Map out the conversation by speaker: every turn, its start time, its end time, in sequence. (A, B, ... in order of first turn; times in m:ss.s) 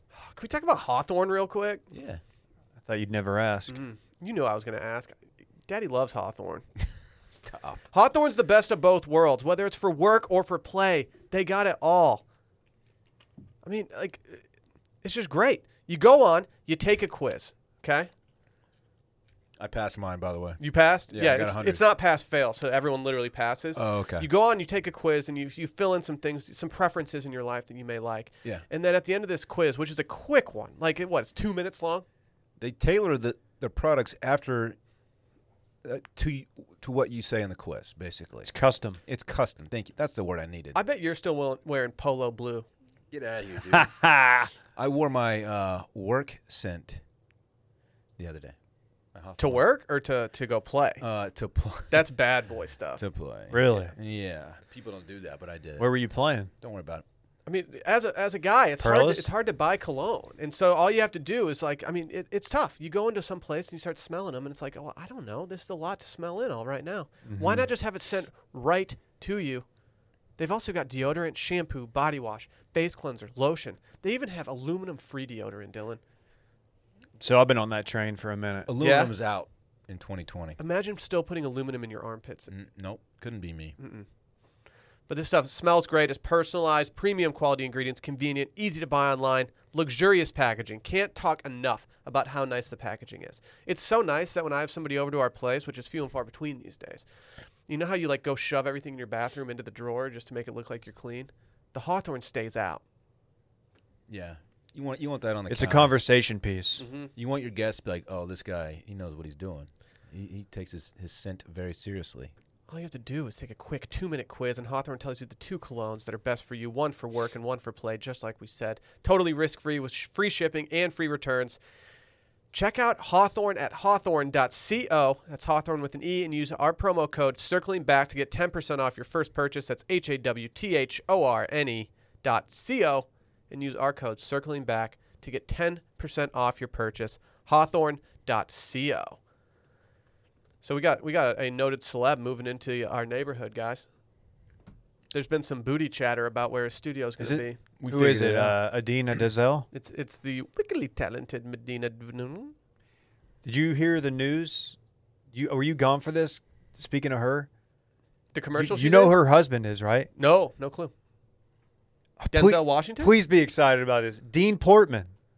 0:00.1-0:01.8 A
0:01.9-0:02.2 B
0:02.8-0:03.8 C
0:03.7-0:06.6 A
0:07.4-0:07.8 B
0:07.9-0:12.2 A
0:13.6-0:14.4 A
0:15.0-0:18.1 A
0:19.6-0:21.8 B
0:20.6-0:32.0 A
0:23.7-0:24.3 B
0:32.6-0:34.8 B
0:35.8-0:38.5 B
0:38.4-0:39.0 C
0:39.0-0:40.8 B
0:40.7-0:42.7 A
0:43.1-0:43.9 B
0:43.7-0:44.5 C
0:44.8-0:47.0 B
0:48.2-0:48.6 B
0:49.1-0:49.6 B
0:49.4-0:51.0 A
0:51.0-0:52.0 B
0:51.9-0:53.0 A
0:53.0-0:55.9 B
0:53.5-0:53.9 C
0:55.8-0:56.5 C
0:56.6-0:57.0 B
0:57.4-1:09.6 A
0:58.8-0:59.3 C
1:07.2-1:07.7 C
1:10.4-1:16.0 A
1:17.2-1:18.7 C
1:18.7-1:20.6 B
1:18.8-1:19.1 A
1:20.6-1:22.5 A
1:22.5-1:23.8 B
1:23.8-1:24.0 A
1:25.1-1:37.0 A
1:37.7-1:42.8 A
1:44.1-1:46.0 B
1:45.5-1:46.8 C
1:46.8-1:47.1 A
1:47.2-1:52.3 B
1:52.7-2:01.6 A
2:02.5-2:19.2 A
2:20.6-2:23.9 A
2:25.1-2:27.6 A
2:27.2-2:29.7 C
2:27.8-2:28.6 B
2:29.7-2:32.5 A
2:33.4-2:34.8 C
2:35.3-2:37.5 C
2:38.3-2:39.2 A
2:38.6-2:40.1 C
2:40.2-2:40.9 A
2:42.2-2:45.1 C
2:42.3-2:43.1 A